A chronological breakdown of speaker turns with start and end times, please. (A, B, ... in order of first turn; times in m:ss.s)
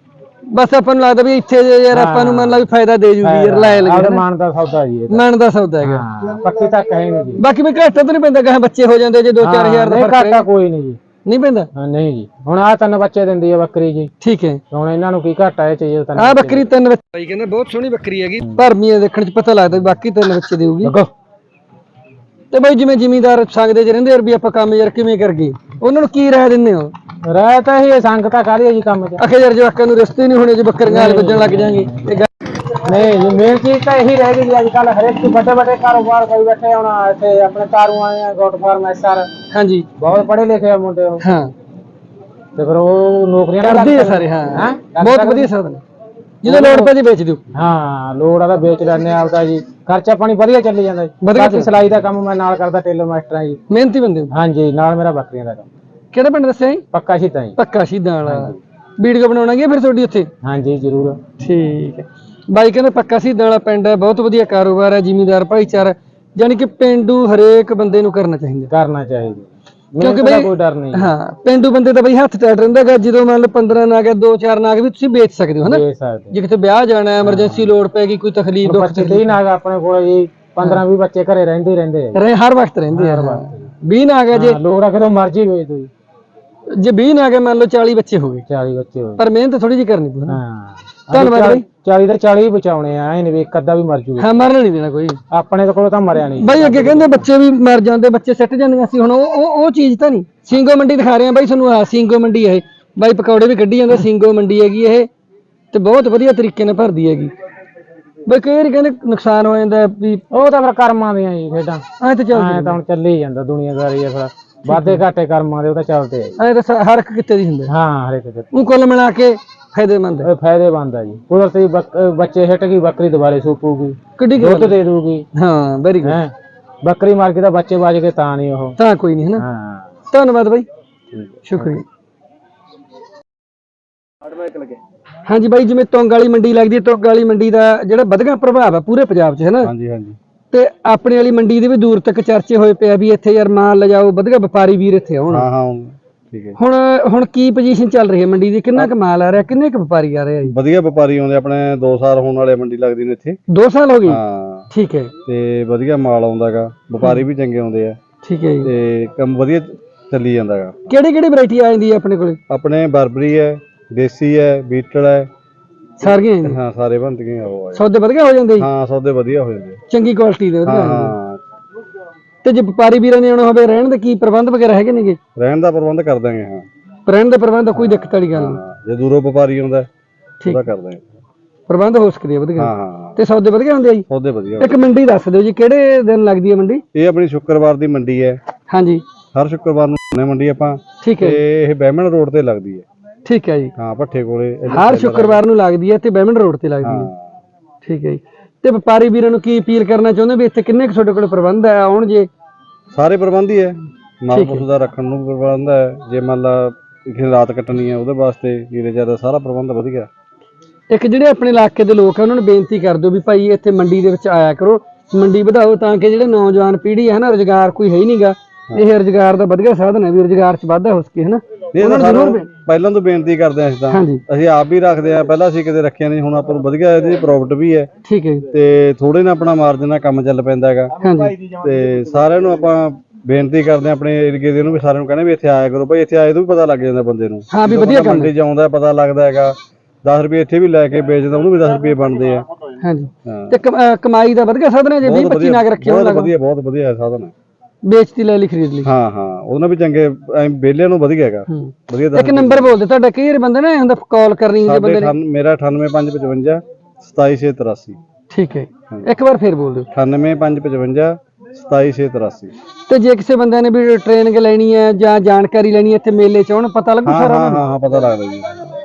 0:00.5-0:04.2 A
0:01.9-0:02.7 B
0:03.2-0:05.2 B
0:05.1-0:06.1 A
0:05.8-0:07.4 B
0:07.4-0:10.5 A
0:09.4-0:11.0 B
0:11.2-0:11.7 A
0:11.8-0:14.1 B
0:14.2-0:14.6 A
0:14.7-0:16.7 B
0:16.2-0:20.9 A
0:20.8-0:21.1 B
0:22.5-0:26.9 A
0:27.3-0:29.2 B
0:29.2-0:32.3 A
0:30.8-0:32.0 B
0:32.7-0:39.3 B
0:39.5-0:39.9 A
0:40.0-0:41.2 B
0:41.2-0:41.5 A
0:42.6-0:45.5 B
0:43.6-0:45.8 A
0:46.4-0:47.4 A
0:46.5-0:46.9 B
0:47.5-0:53.6 B
0:51.2-0:51.7 A
0:53.7-0:54.3 A
0:54.3-0:55.7 B
0:56.1-0:56.8 A
0:56.9-0:57.6 B
0:57.6-1:00.3 A
0:58.2-0:58.6 B
1:00.4-1:01.2 B
1:01.4-1:08.7 A
1:08.7-1:11.1 B
1:10.0-1:19.3 A
1:15.6-1:16.4 B
1:17.2-1:17.7 B
1:18.6-1:22.2 B
1:22.2-1:24.6 A
1:22.9-1:23.7 B
1:24.3-1:25.9 B
1:26.7-1:28.4 A
1:28.5-1:29.2 B
1:29.2-1:30.4 A
1:30.3-1:34.4 B
1:31.1-1:31.6 A
1:34.2-1:35.2 A
1:35.3-1:37.3 B
1:36.4-1:45.1 A
1:45.7-1:47.3 A
1:48.2-1:50.2 A
1:50.3-1:56.4 B
1:52.0-1:52.8 A
1:54.7-1:55.0 A
1:56.4-1:57.7 A
1:57.7-1:58.5 B
1:58.5-2:00.3 A
2:00.2-2:05.2 B
2:04.2-2:04.8 A
2:05.4-2:06.2 A
2:06.0-2:08.8 B
2:08.8-2:09.4 A
2:09.4-2:09.9 B
2:10.1-2:10.7 A
2:11.2-2:11.7 B
2:11.4-2:11.8 A
2:15.3-2:19.7 A
2:19.6-2:20.2 C
2:20.5-2:25.4 A
2:25.3-2:26.6 C
2:26.6-2:30.6 A
2:30.5-2:33.4 C
2:33.5-2:34.2 A
2:34.1-2:34.7 C
2:34.7-2:35.1 A
2:35.2-2:38.0 C
2:38.2-2:38.7 A
2:38.6-2:40.8 C
2:40.9-2:42.4 A
2:42.5-2:45.3 C
2:46.0-2:46.6 A
2:46.0-2:47.8 C
2:47.7-2:48.7 A
2:48.6-2:49.8 C
2:49.9-2:51.1 A
2:50.7-2:51.4 C
2:52.4-2:55.2 A
2:55.4-2:56.7 C
2:57.1-2:58.6 A
2:57.8-2:59.9 C
3:00.4-3:01.0 C
3:01.7-3:04.1 A
3:02.6-3:03.2 C
3:04.1-3:04.8 C
3:04.6-3:06.8 A
3:06.9-3:08.4 C
3:08.7-3:09.0 A
3:09.3-3:12.8 C
3:11.0-3:11.4 A
3:13.2-3:13.7 A
3:13.8-3:15.4 C
3:14.7-3:17.1 A
3:16.8-3:17.2 C
3:17.8-3:22.3 A
3:22.9-3:30.1 C
3:24.3-3:24.6 A
3:30.9-3:42.5 A
3:41.7-3:47.9 C
3:43.9-3:44.2 A
3:48.0-3:48.5 A
3:48.5-3:50.9 C
3:51.0-3:51.4 A
3:51.5-4:02.4 C
3:57.5-3:58.3 A
4:02.8-4:06.3 A
4:03.2-4:03.6 C
4:05.0-4:07.3 C
4:07.8-4:08.9 A
4:08.8-4:12.8 C
4:11.5-4:15.1 A
4:14.6-4:18.0 C
4:18.3-4:19.9 A
4:19.9-4:22.5 C
4:22.9-4:27.6 A
4:27.0-4:28.7 C